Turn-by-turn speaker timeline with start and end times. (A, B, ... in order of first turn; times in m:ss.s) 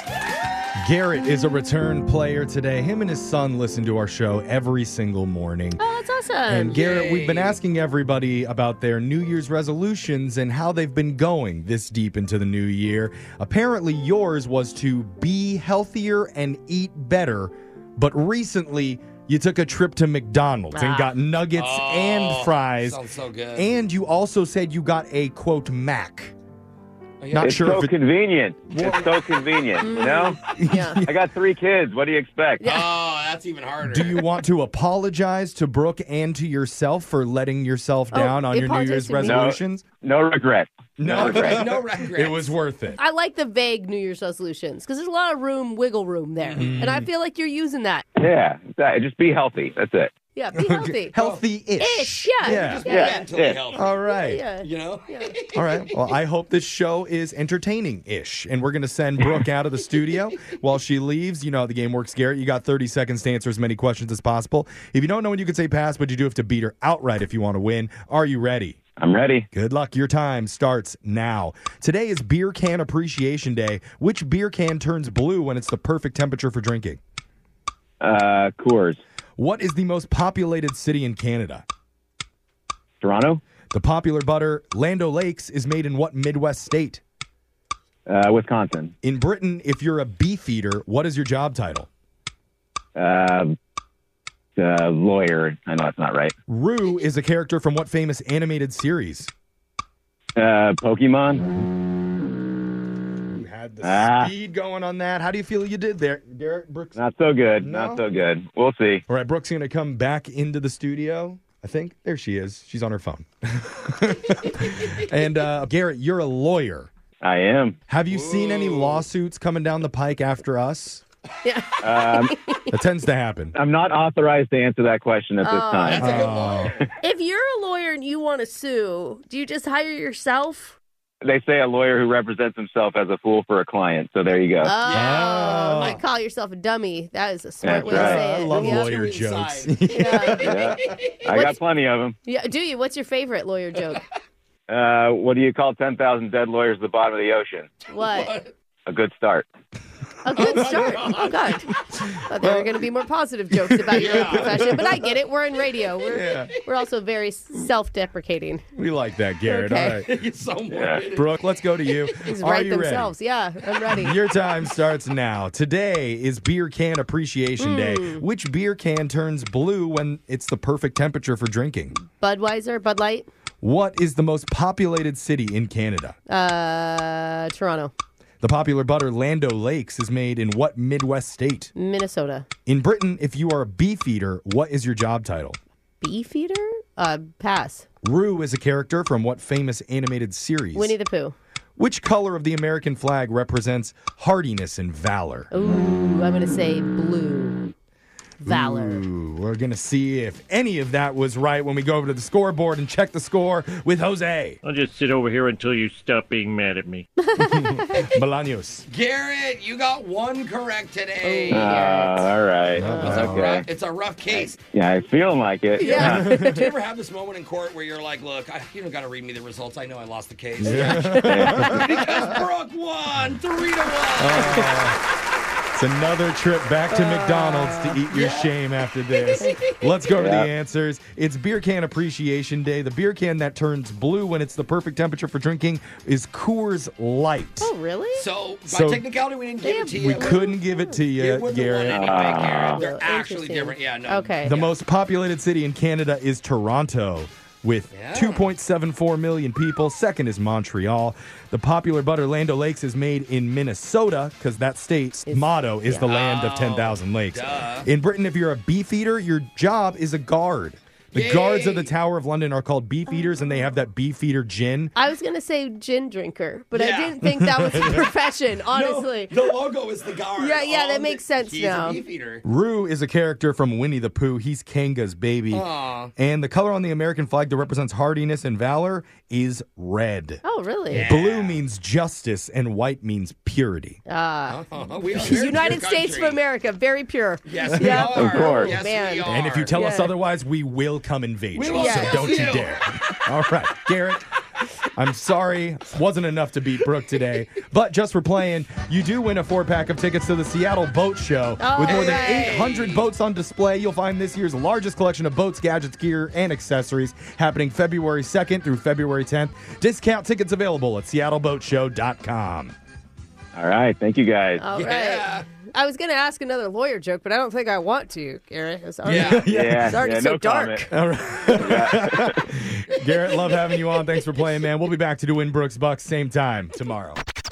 0:00.8-0:05.8 A
0:05.8-0:06.8 B
0:06.5-0:23.0 A
0:06.7-0:07.6 C
0:20.7-0:21.2 B
0:21.5-0:23.7 C
0:23.6-0:26.3 A
0:27.2-0:27.8 C
0:27.3-0:27.9 A
0:27.3-0:30.4 D
0:28.8-0:29.9 C
0:29.8-0:31.0 B
0:30.6-0:31.2 A
0:31.0-0:32.7 D
0:32.6-0:32.9 B
0:32.6-0:34.2 C
0:33.8-0:39.8 A
0:38.1-0:39.5 B
0:39.2-0:41.7 D
0:41.0-0:43.0 A
0:41.0-0:42.5 C
0:43.0-0:48.0 B
0:46.4-0:47.0 C
0:46.6-0:47.0 A
0:48.2-0:50.1 D
0:50.3-0:51.2 B
0:50.5-0:52.9 A
0:51.8-0:53.2 B
0:52.4-0:53.9 C
0:52.8-0:53.6 D
0:53.7-0:54.4 A
0:54.1-0:55.3 B
0:54.6-0:55.6 C
0:55.5-1:08.8 A
1:09.0-1:09.5 D
1:09.5-1:17.0 A
1:18.0-1:19.0 D
1:19.4-1:21.6 A
1:23.0-1:23.4 D
1:23.7-1:27.0 A
1:28.1-1:28.9 D
1:29.0-1:31.9 A
1:33.0-1:33.5 D
1:34.6-1:36.3 D
1:36.5-1:39.3 A
1:40.4-1:41.5 D
1:43.3-1:47.0 A
1:43.8-1:44.3 D
1:47.0-1:49.0 D
1:47.6-1:48.0 A
1:49.1-1:56.9 A
1:57.2-1:57.8 D
1:57.9-2:01.0 A
1:58.1-1:59.0 C
2:01.4-2:02.7 B
2:01.8-2:02.3 D
2:02.7-2:03.6 A
2:03.5-2:06.2 D
2:05.4-2:10.8 B
2:05.8-2:06.7 C
2:06.0-2:06.7 A
2:11.2-2:14.7 D
2:14.6-2:19.1 B
2:14.8-2:16.0 C
2:14.9-2:16.0 A
2:17.6-2:18.3 D
2:17.8-2:20.8 A
2:18.4-2:19.8 C
2:19.9-2:20.7 B
2:20.3-2:21.3 C
2:20.4-2:22.2 D
2:21.3-2:21.6 B
2:22.2-2:24.0 B
2:24.7-2:27.7 D
2:27.9-2:28.4 B
2:28.0-2:28.5 C
2:28.8-2:29.5 D
2:30.2-2:38.6 B
2:30.4-2:31.4 C
2:32.4-2:32.8 A
2:33.8-2:34.8 A
2:33.9-2:34.8 C
2:36.1-2:36.5 A
2:36.1-2:36.6 C
2:38.8-2:40.1 A
2:39.4-2:40.0 B
2:40.0-2:42.2 C
2:40.7-2:41.0 D
2:41.1-2:43.1 A
2:42.3-2:44.1 B
2:43.9-2:52.0 A
2:47.6-2:48.2 B
2:52.2-2:53.3 B
2:53.6-2:56.2 A
2:56.3-2:57.9 B
2:58.4-3:01.7 A
3:01.8-3:02.5 B
3:02.6-3:05.6 A
3:06.0-3:07.8 B
3:08.0-3:11.0 A
3:10.7-3:11.3 B
3:11.8-3:15.5 A
3:15.5-3:17.7 B
3:18.4-3:19.0 B
3:18.4-3:24.6 A
3:24.6-3:27.1 E
3:27.4-3:28.1 B
3:27.4-3:28.9 A
3:28.9-3:32.1 C
3:31.2-3:32.3 B
3:31.5-3:33.7 D
3:32.7-3:33.6 A
3:32.8-3:34.6 C
3:34.3-3:36.3 D
3:35.8-3:36.7 B
3:35.8-3:44.9 C
3:35.8-3:36.7 A
3:40.6-3:42.3 A
3:41.2-3:41.8 D
3:44.2-3:45.0 A
3:45.7-3:57.7 A
3:46.9-3:48.0 B
3:48.1-3:48.5 C
3:49.1-3:49.9 C
3:50.1-3:50.5 D
3:57.6-3:58.3 B
3:58.1-4:00.4 C
3:58.7-3:59.0 A
3:59.6-4:01.0 B
4:00.0-4:02.3 A
4:01.2-4:04.7 C
4:01.9-4:02.8 D
4:02.7-4:04.5 B
4:04.4-4:24.9 A
4:07.9-4:08.5 C
4:15.2-4:16.1 B
4:16.0-4:17.9 C
4:21.1-4:21.9 C
4:24.9-4:29.4 B
4:26.7-4:27.2 C
4:27.4-4:28.0 A
4:28.7-4:32.4 C
4:30.4-4:32.0 B
4:32.4-4:44.0 A
4:35.5-4:36.1 C
4:40.4-4:41.1 B
4:40.9-4:41.6 C
4:44.1-4:44.6 B
4:44.5-4:46.4 C
4:45.1-4:50.1 B
4:47.4-4:49.7 C
4:48.0-4:48.8 D
4:49.2-4:54.2 A
4:51.5-4:52.9 C
4:51.7-4:52.4 B
4:54.9-5:12.7 A
5:01.6-5:02.6 B
5:01.8-5:03.1 C
5:13.5-5:14.6 D
5:14.6-5:20.9 B
5:14.7-5:15.5 C
5:19.0-5:19.5 C
5:19.0-5:20.0 A
5:19.4-5:20.9 D
5:20.9-5:27.2 A
5:21.5-5:22.4 D
5:23.1-5:23.6 C